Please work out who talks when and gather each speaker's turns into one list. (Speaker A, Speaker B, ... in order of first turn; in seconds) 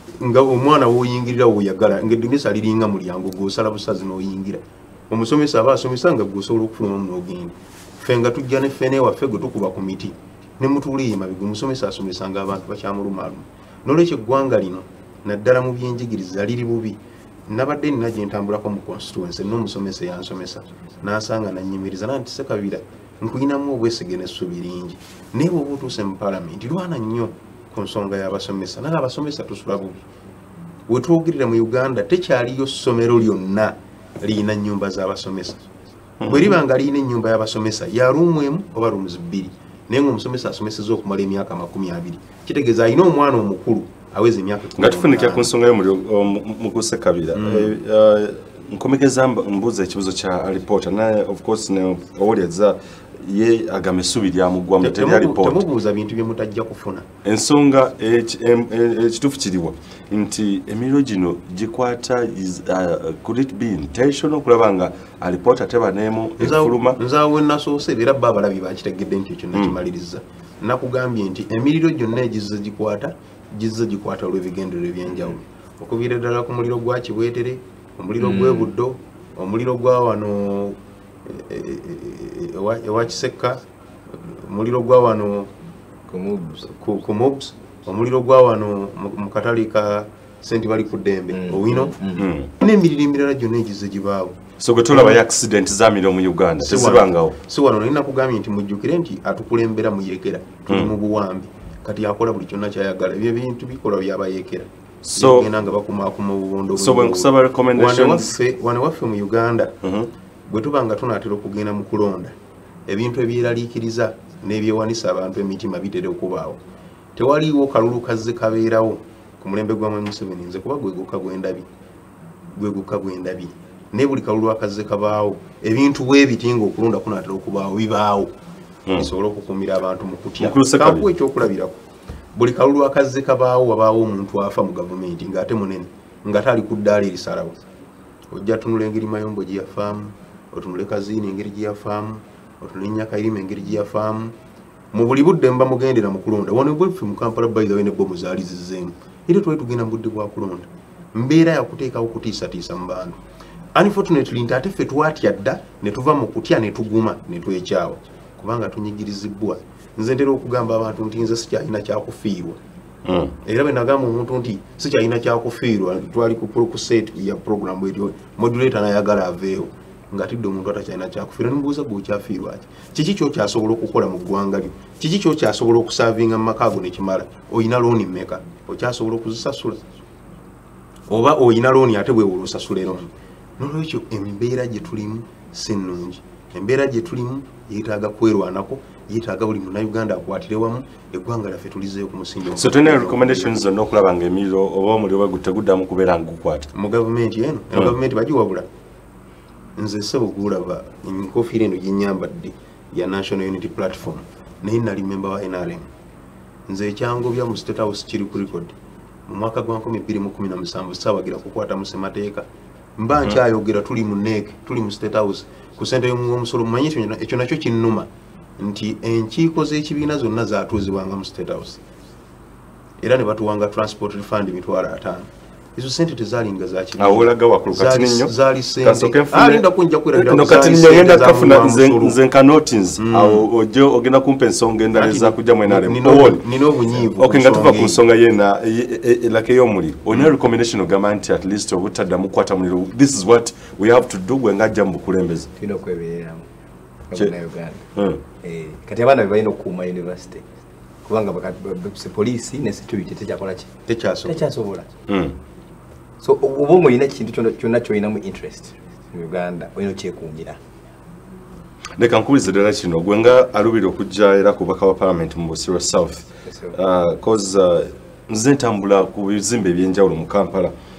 Speaker A: 0.2-30.0, 30.9-35.6, 36.2-45.5, 47.3-47.7, 54.8-57.1, 66.4-85.5, 86.6-91.9, 92.6-94.4, 94.9-95.2, 96.6-109.8, 110.5-112.3, 112.9-116.6, 117.2-121.7, 122.5-128.3, 128.9-131.8, 132.3-137.6, 138.3-144.3, 144.9-153.2, 153.7-162.6, 163.4-179.8, 181.1-193.6, 196.7-198.7, 199.8-205.9, 206.7-208.7, 209.3-212.4, 213.0-218.1, 218.6-221.8, 223.0-232.2, 233.0-233.5, 234.9-238.0, 253.9-254.4
Speaker B: 36.2-36.6, 44.8-55.6, 57.2-67.0, 92.2-92.5, 94.6-97.3, 100.7-100.9, 105.0-105.5, 106.8-108.3, 109.8-110.1, 130.4-131.1, 163.0-163.3, 192.5-196.7, 227.0-245.5, 247.9-248.2, 255.1-255.3, 261.9-270.7
Speaker C: 78.2-78.7, 86.1-86.7, 91.3-92.3, 245.6-246.4, 247.1-247.8, 248.4-250.4, 251.1-253.7, 254.2-254.9, 256.2-260.6, 266.5-266.8